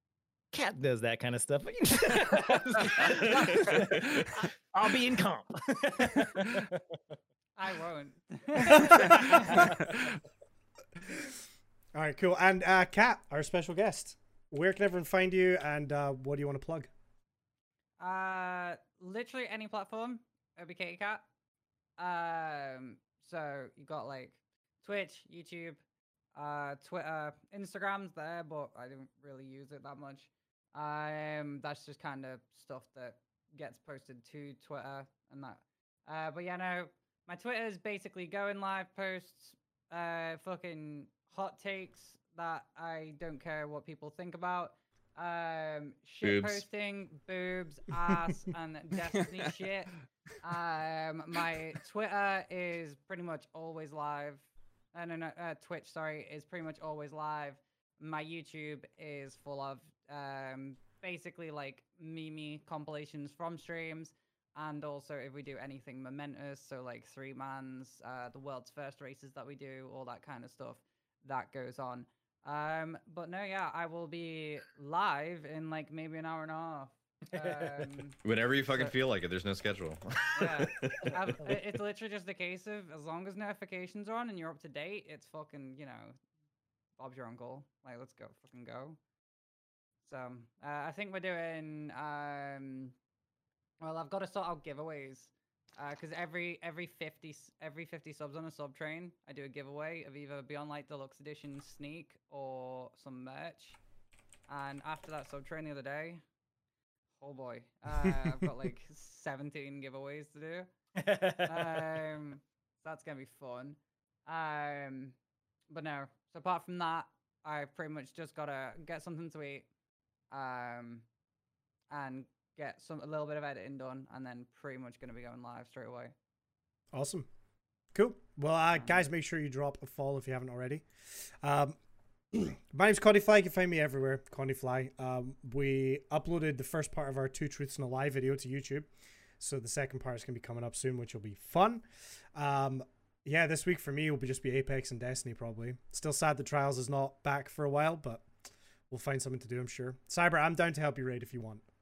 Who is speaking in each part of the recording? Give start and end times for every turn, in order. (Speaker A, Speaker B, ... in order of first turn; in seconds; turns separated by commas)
Speaker A: 0.5-6.8, Speaker B: 7.5-9.6, Speaker C: 8.7-9.7, Speaker C: 11.0-11.4, Speaker C: 11.9-16.9, Speaker B: 18.0-21.2, Speaker B: 22.0-25.8, Speaker B: 26.3-78.2, Speaker D: 46.2-46.6, Speaker A: 77.3-77.9, Speaker D: 78.2-81.1, Speaker B: 78.7-78.9, Speaker B: 80.3-86.2, Speaker B: 87.0-89.0, Speaker B: 90.0-92.9, Speaker B: 93.8-103.8, Speaker B: 104.5-106.2, Speaker B: 107.2-110.7, Speaker A: 111.0-111.9, Speaker B: 111.4-115.2, Speaker B: 115.7-119.7, Speaker B: 120.3-121.0, Speaker B: 121.9-126.1, Speaker C: 126.9-127.3, Speaker C: 127.9-131.8, Speaker B: 128.7-129.0, Speaker C: 132.3-138.9, Speaker C: 139.4-148.3, Speaker C: 148.9-151.6